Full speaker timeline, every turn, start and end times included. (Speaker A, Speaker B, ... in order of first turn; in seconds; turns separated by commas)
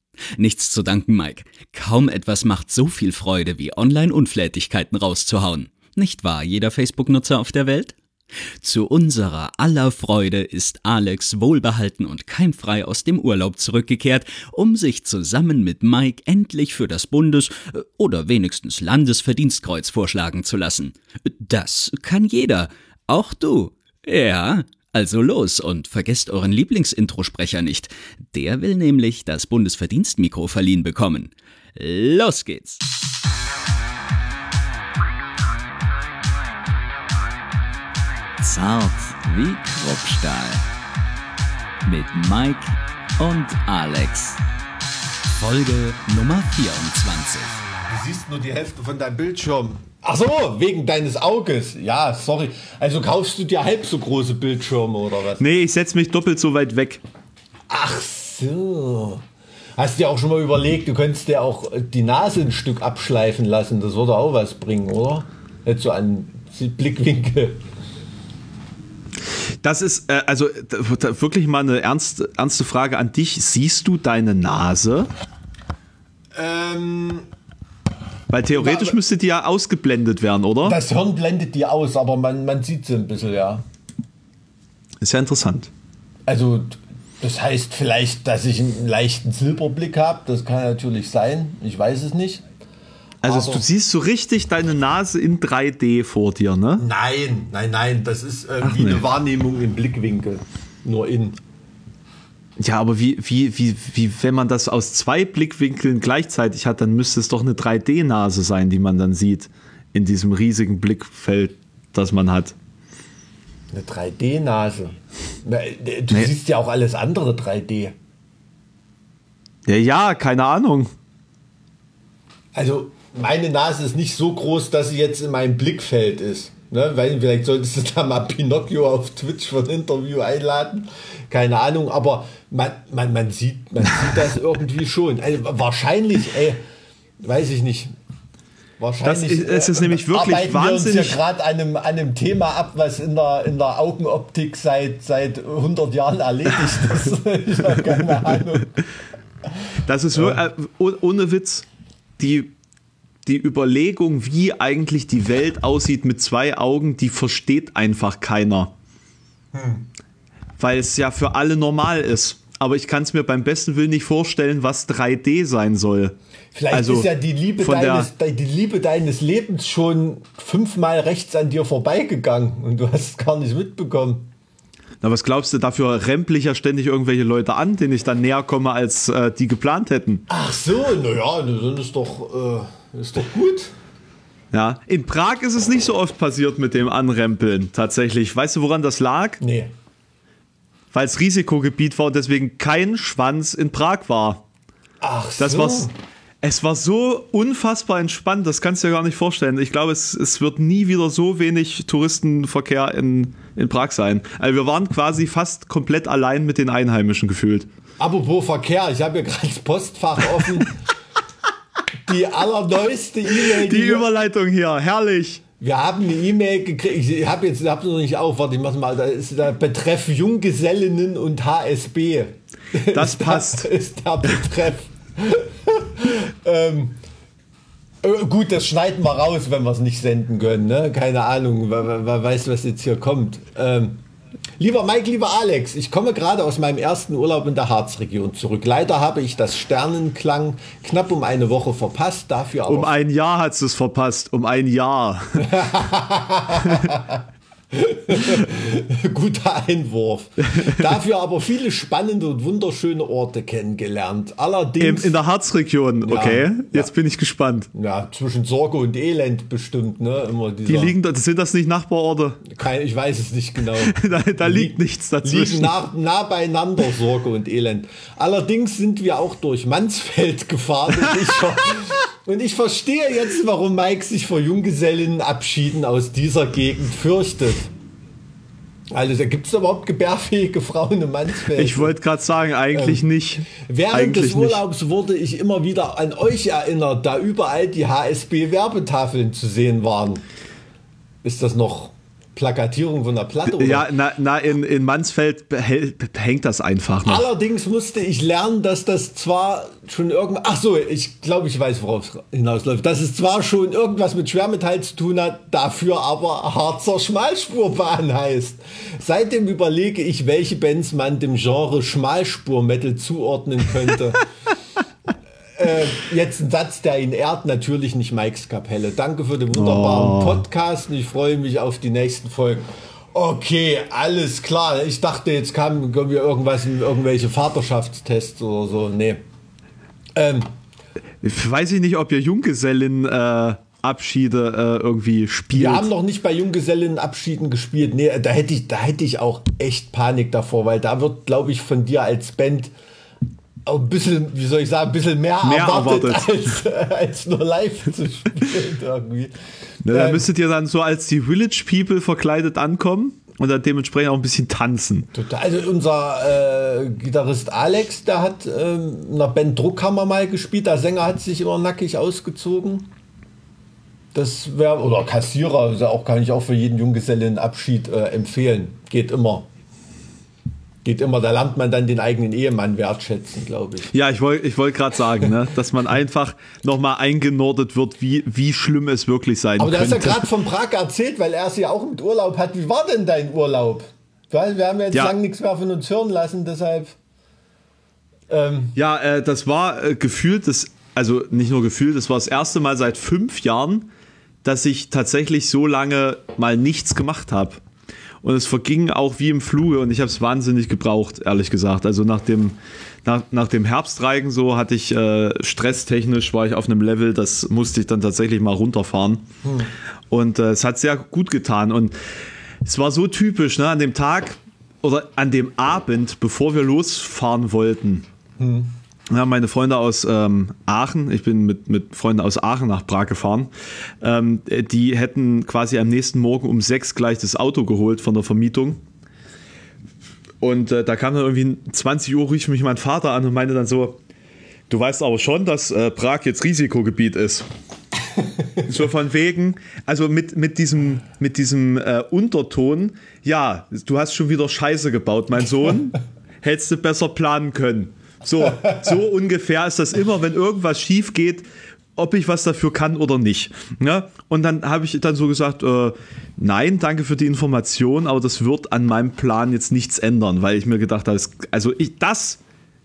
Speaker A: 0.4-7.9, Speaker A: 8.6-32.8, Speaker A: 38.4-40.6, Speaker A: 41.9-44.4, Speaker A: 45.4-47.6, Speaker B: 47.9-55.4, Speaker C: 55.4-57.0, Speaker B: 57.7-59.2, Speaker B: 59.8-67.6, Speaker C: 69.3-75.1, Speaker B: 76.3-77.2, Speaker C: 78.3-80.8, Speaker B: 78.5-79.0, Speaker B: 80.6-83.6, Speaker C: 85.0-85.7, Speaker B: 86.3-92.4, Speaker C: 93.2-96.8, Speaker B: 93.2-93.6, Speaker B: 96.8-101.4, Speaker C: 98.6-99.0, Speaker C: 102.6-112.5, Speaker B: 113.7-118.0, Speaker C: 119.7-120.9, Speaker B: 122.5-136.6, Speaker B: 137.2-137.9, Speaker B: 138.8-148.8, Speaker C: 139.0-141.2, Speaker C: 146.7-147.0, Speaker C: 147.7-148.5, Speaker C: 149.8-151.7, Speaker C: 152.2-152.5, Speaker C: 153.2-158.7, Speaker B: 159.5-159.8, Speaker C: 160.6-166.2, Speaker B: 166.5-174.3, Speaker C: 166.7-168.1, Speaker C: 175.0-180.2, Speaker B: 180.3-183.7, Speaker C: 184.5-189.4, Speaker B: 189.4-189.7, Speaker C: 190.9-194.4, Speaker B: 195.0-195.9, Speaker C: 195.4-195.9, Speaker C: 196.4-207.7, Speaker B: 208.0-210.8, Speaker B: 212.1-214.1, Speaker C: 213.3-215.4, Speaker B: 215.6-227.0, Speaker C: 222.9-223.7, Speaker B: 228.0-234.0, Speaker B: 234.6-242.9, Speaker C: 242.7-245.6, Speaker B: 245.4-255.2, Speaker C: 246.6-246.9, Speaker C: 248.1-248.4, Speaker C: 250.4-250.9, Speaker C: 254.8-257.7, Speaker B: 256.0-256.9, Speaker B: 257.7-260.9, Speaker C: 260.7-262.4, Speaker B: 262.4-277.7, Speaker C: 263.9-265.7, Speaker C: 271.3-271.8, Speaker B: 278.9-281.9, Speaker C: 281.5-284.6, Speaker B: 282.7-283.0, Speaker B: 283.6-290.2, Speaker B: 291.2-293.9, Speaker C: 293.5-297.3, Speaker B: 297.0-314.2, Speaker B: 315.6-329.2, Speaker C: 319.5-320.4, Speaker B: 330.1-330.5, Speaker C: 331.2-335.9, Speaker B: 335.5-342.7, Speaker B: 343.6-350.2, Speaker C: 345.4-346.4, Speaker C: 349.8-355.1, Speaker B: 355.1-362.9, Speaker B: 364.1-369.5, Speaker B: 370.8-373.9, Speaker C: 373.9-380.3, Speaker B: 379.6-386.9, Speaker B: 388.3-388.8, Speaker C: 388.8-393.9, Speaker C: 394.4-397.6, Speaker C: 398.2-409.2, Speaker B: 409.4-409.7, Speaker C: 410.1-411.9, Speaker C: 412.6-418.1, Speaker B: 418.4-418.7, Speaker C: 419.1-423.5, Speaker C: 424.0-428.8, Speaker C: 430.4-434.0, Speaker C: 434.7-437.5, Speaker C: 438.6-462.4